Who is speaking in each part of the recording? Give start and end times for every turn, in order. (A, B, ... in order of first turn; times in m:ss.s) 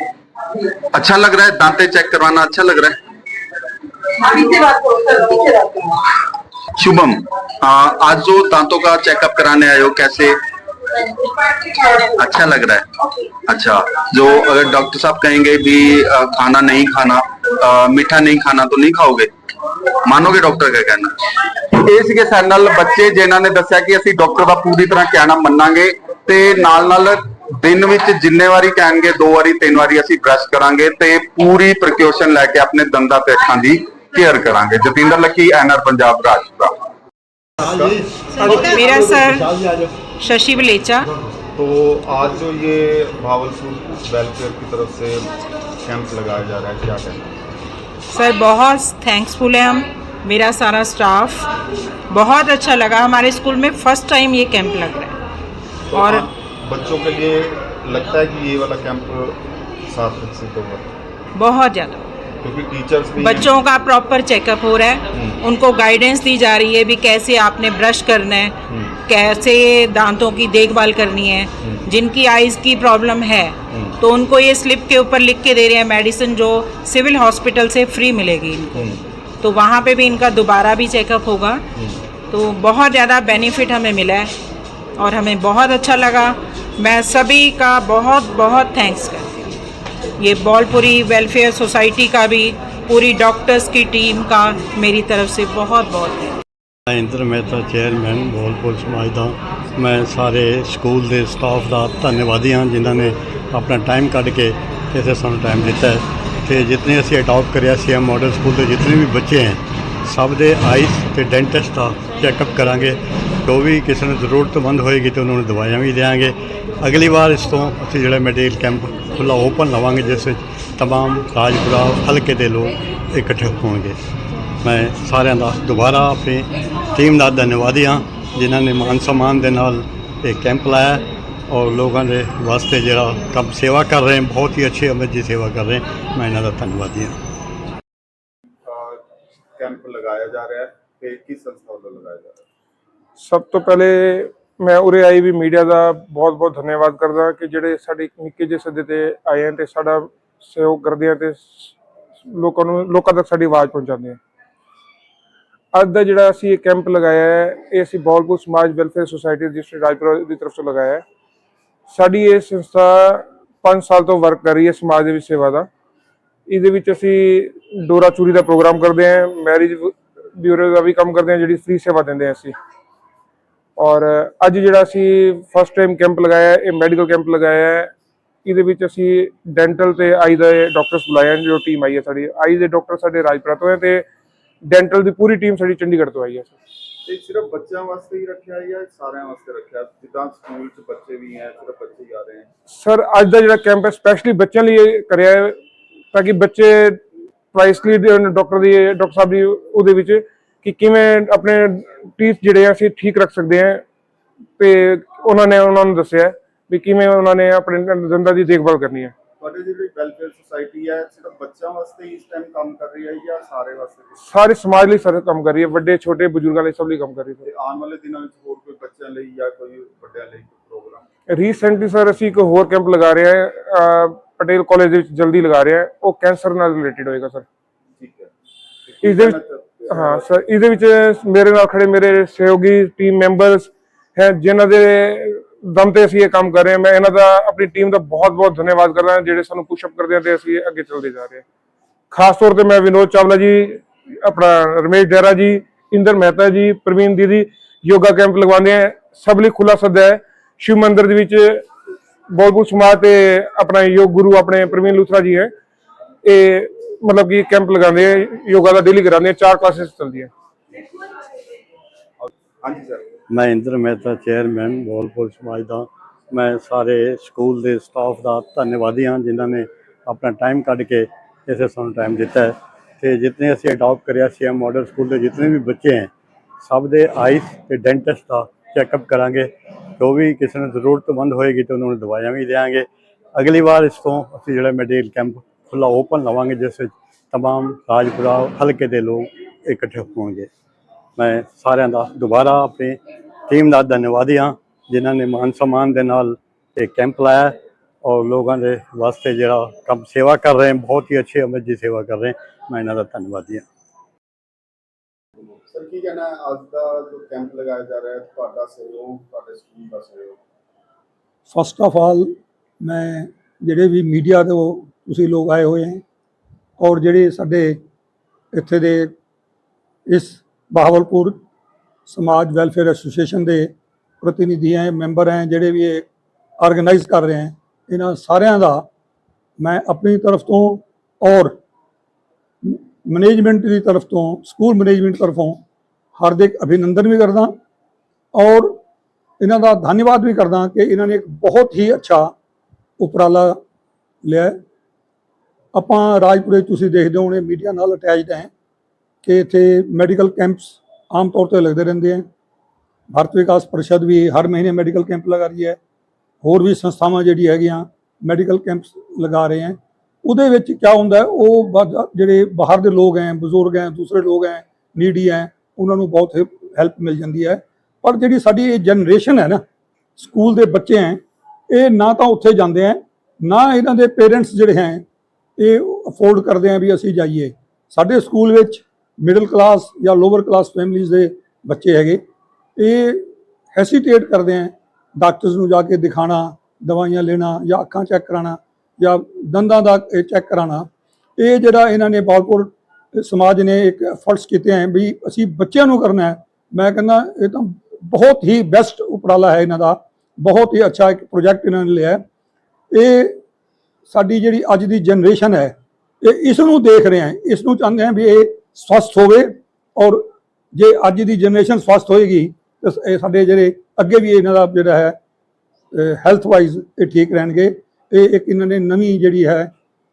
0:00.9-0:03.0 A
0:06.8-0:10.4 A
0:11.7-0:12.9 A
0:13.5-0:19.3 A
0:20.0-0:36.7 A
0:37.6-0:38.1 B
0:38.4-0:39.5 C
0:40.2-0:41.1 C
0:41.6-0:47.6 B
0:48.1-0:51.5 C
0:52.1-0:55.2 C
0:55.9-1:00.9 B
0:55.9-0:56.2 C
1:01.4-1:02.0 C
1:02.4-1:03.6 B
1:03.2-1:18.9 C
1:05.1-1:05.5 B
1:08.7-1:09.0 B
1:11.6-1:11.9 B
1:18.8-1:19.0 B
1:19.4-1:21.6 C
1:21.8-1:22.0 B
1:22.3-1:24.3 C
1:25.0-1:29.5 C
1:30.2-1:36.4 C
1:36.9-2:04.0 D
2:04.6-2:17.2 D
2:18.7-2:19.0 B
2:19.6-2:22.4 B
2:23.2-2:31.7 E
2:32.4-2:34.2 E
2:35.7-2:41.0 E
2:41.9-2:45.7 E
2:46.5-2:52.5 E
2:53.8-2:57.9 E
2:58.4-3:04.0 E
3:04.7-3:06.6 E
3:07.0-3:12.5 B
3:12.7-3:15.6 E
3:16.1-3:17.0 E
3:17.5-3:23.8 E
3:24.6-3:29.1 E
3:29.4-3:34.2 B
3:34.2-3:37.4 E
3:37.4-3:41.1 B
3:41.3-3:47.4 E
3:48.0-3:48.3 B
3:48.9-3:50.4 B
3:49.0-4:01.4 E
4:02.1-4:11.6 E
4:12.3-4:15.5 E
4:16.2-4:20.3 E
4:22.2-4:23.0 B
4:23.3-4:50.5 D
4:51.2-5:03.7 D
5:05.5-5:10.4 B
5:11.5-5:16.0 F
5:16.8-5:17.8 F
5:18.5-5:19.1 F
5:20.1-5:21.4 F
5:22.1-5:23.7 F
5:24.2-5:26.1 F
5:26.6-5:28.9 F
5:29.6-5:31.6 F
5:32.6-5:35.6 F
5:36.2-5:37.5 F
5:38.3-5:38.8 F
5:39.4-5:42.3 F
5:43.0-5:43.6 F
5:44.2-5:44.6 F
5:45.8-5:48.5 F
5:49.2-5:52.2 F
5:53.1-5:55.8 F
5:56.4-6:09.6 F
6:10.2-6:15.0 F
6:15.6-6:22.2 F
6:22.8-6:42.2 F
6:42.9-6:43.4 F
6:44.1-6:55.2 F
6:55.9-6:59.7 F